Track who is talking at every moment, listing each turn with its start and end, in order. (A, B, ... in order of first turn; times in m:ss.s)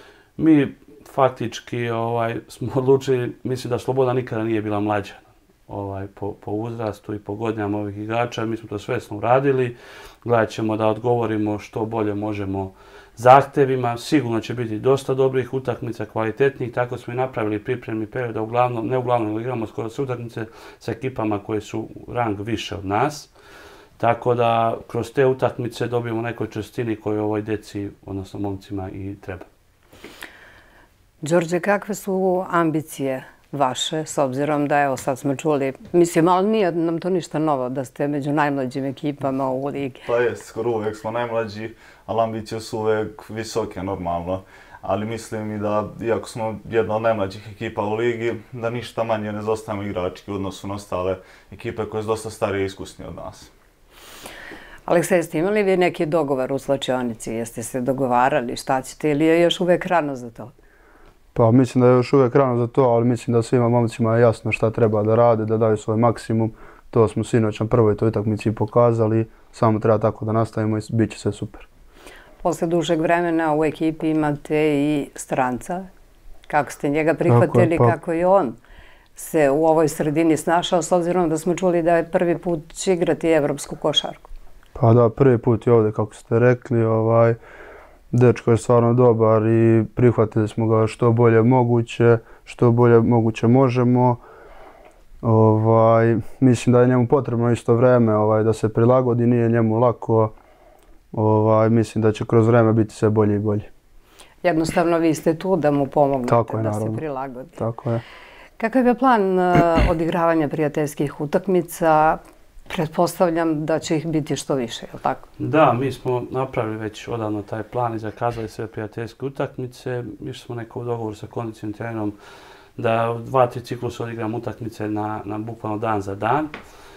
0:00.4-0:23.3 A
0:24.0-0:29.5 A
0:31.2-0:40.0 B
0:40.0-0:53.5 C
0:54.9-1:00.5 B
1:01.3-1:11.7 D
1:12.4-1:15.9 B
1:16.5-1:18.6 B
1:17.3-1:17.9 D
1:19.2-1:24.3 B
1:24.8-1:27.4 D
1:28.1-1:34.2 D
1:35.2-1:40.3 D
1:41.1-1:43.7 D
1:44.4-1:47.6 B
1:46.3-1:47.0 D
1:47.6-1:48.0 D
1:48.6-1:55.2 B
1:55.4-2:02.2 A
2:02.8-2:06.5 A